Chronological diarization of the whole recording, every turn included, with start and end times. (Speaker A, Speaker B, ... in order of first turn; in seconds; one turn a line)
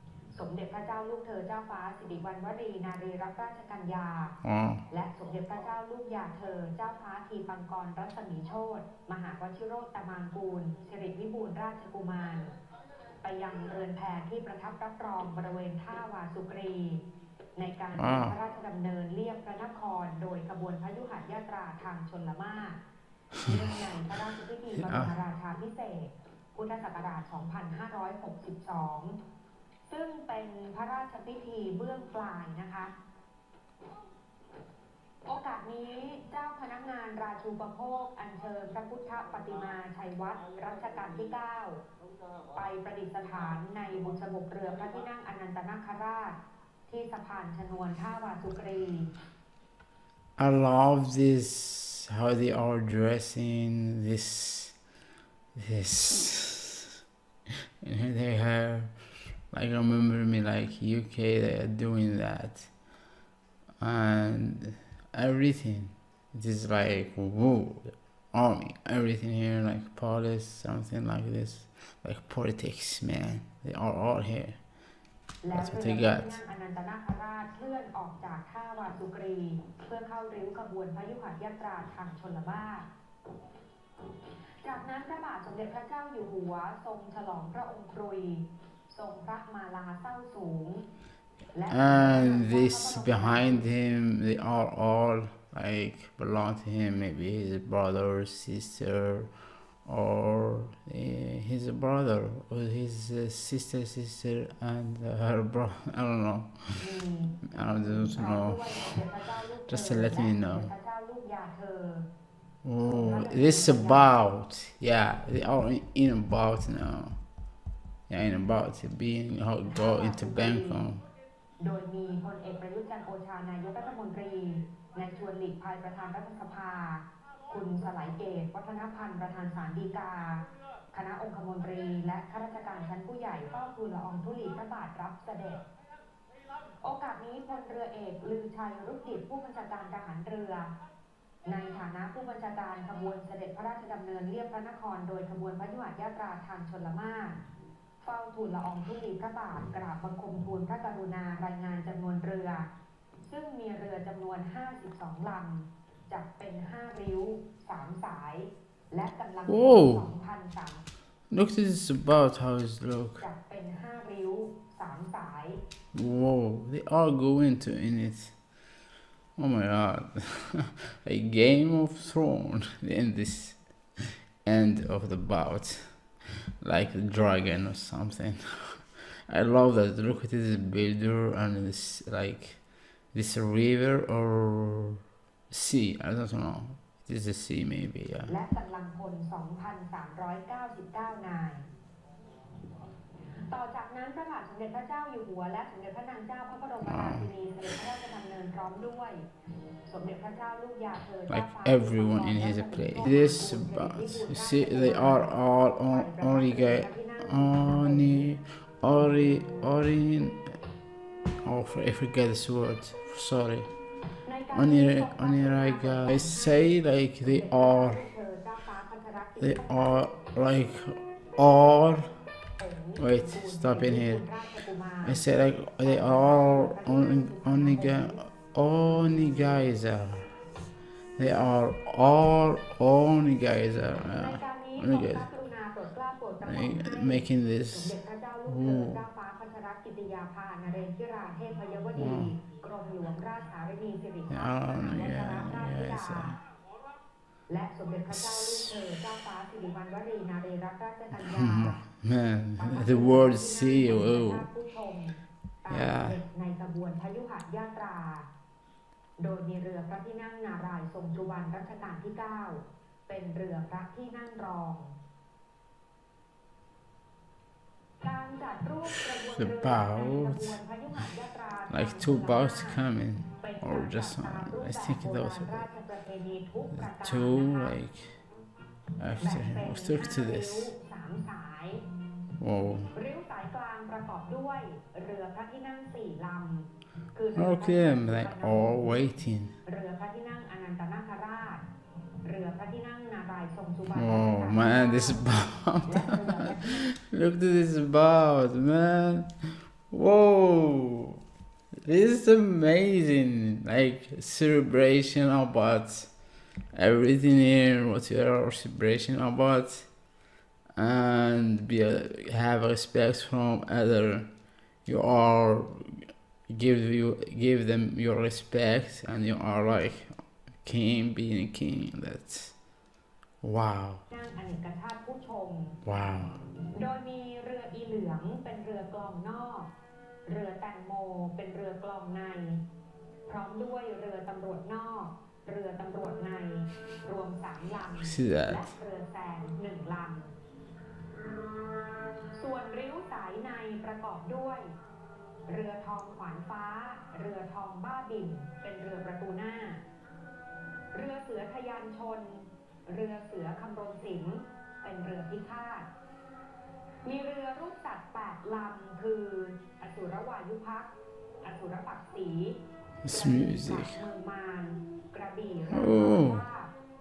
Speaker A: 0.3-4.4
Speaker B: 4.4-4.8
Speaker A: 4.9-12.6
Speaker A: 13.2-17.0
Speaker A: 17.6-22.8
Speaker B: 17.9-18.4
Speaker A: 23.4-29.2
Speaker B: 24.8-25.1
Speaker A: 29.9-32.9
Speaker A: 35.2-41.8
Speaker A: 42.5-49.1
Speaker B: 50.4-54.8
Speaker B: 55.5-56.9
Speaker B: 57.8-59.0
Speaker B: 59.5-62.7
Speaker B: 63.8-74.6
Speaker A: 75.4-82.9
Speaker B: 75.5-76.4
Speaker A: 84.6-90.9
Speaker A: 91.5-93.7
Speaker B: 91.7-99.3
Speaker B: 99.8-106.9
Speaker A: 106.8-112.1
Speaker B: 107.5-109.0
Speaker B: 109.7-110.7
Speaker B: 112.6-117.2
Speaker A: 112.8-114.2
Speaker B: 118.1-121.0
Speaker A: 119.6-120.8
Speaker A: 121.6-135.6
Speaker A: 136.8-140.7
Speaker A: 141.4-147.4
Speaker A: 148.0-152.7
Speaker A: 153.2-160.8
Speaker B: 159.5-160.1
Speaker B: 161.3-163.2
Speaker A: 163.2-165.6
Speaker B: 165.9-168.3
Speaker B: 169.3-173.8
Speaker B: 174.4-176.1
Speaker B: 176.6-188.3
Speaker A: 188.3-191.7
Speaker A: 193.5-199.3
Speaker B: 196.8-197.3
Speaker A: 199.8-208.3
Speaker B: 201.3-210.6
Speaker B: 211.4-213.7
Speaker A: 214.2-216.7
Speaker B: 214.5-218.0
Speaker A: 217.2-220.1
Speaker B: 219.4-222.2
Speaker A: 222.6-225.3
Speaker B: 223.0-224.2
Speaker B: 225.0-230.3
Speaker A: 225.8-228.2
Speaker A: 228.9-229.7
Speaker B: 231.2-235.3
Speaker A: 234.1-246.4
Speaker B: 236.4-239.0
Speaker B: 241.9-242.3
Speaker B: 244.3-246.4
Speaker A: 247.5-251.8
Speaker B: 248.1-248.8
Speaker B: 251.1-254.5
Speaker A: 252.6-258.3
Speaker B: 255.7-256.2
Speaker A: 259.2-265.0
Speaker A: 268.0-272.8
Speaker B: 269.3-270.6
Speaker B: 271.7-275.6
Speaker A: 273.4-277.8
Speaker B: 276.8-278.1
Speaker B: 279.0-280.7
Speaker A: 279.2-281.9
Speaker B: 282.4-282.9
Speaker A: 282.9-289.0
Speaker B: 287.4-289.5
Speaker A: 289.6-291.6
Speaker A: 292.2-295.3
Speaker B: 293.9-299.3
Speaker A: 295.8-296.9
Speaker B: 299.9-301.2
Speaker B: 301.8-306.1
Speaker B: 306.7-309.9
Speaker B: 310.7-314.3
Speaker B: 314.8-322.5
Speaker B: 323.4-324.0
Speaker A: 324.1-325.8
Speaker B: 325.8-326.4
Speaker A: 326.7-329.7
Speaker A: 330.2-332.6
Speaker A: 333.3-340.3
Speaker B: 338.0-338.6
Speaker A: 342.3-344.8
Speaker A: 345.5-349.8
Speaker A: 350.9-355.9
Speaker A: 357.0-366.7
Speaker B: 363.0-364.0
Speaker B: 365.7-366.4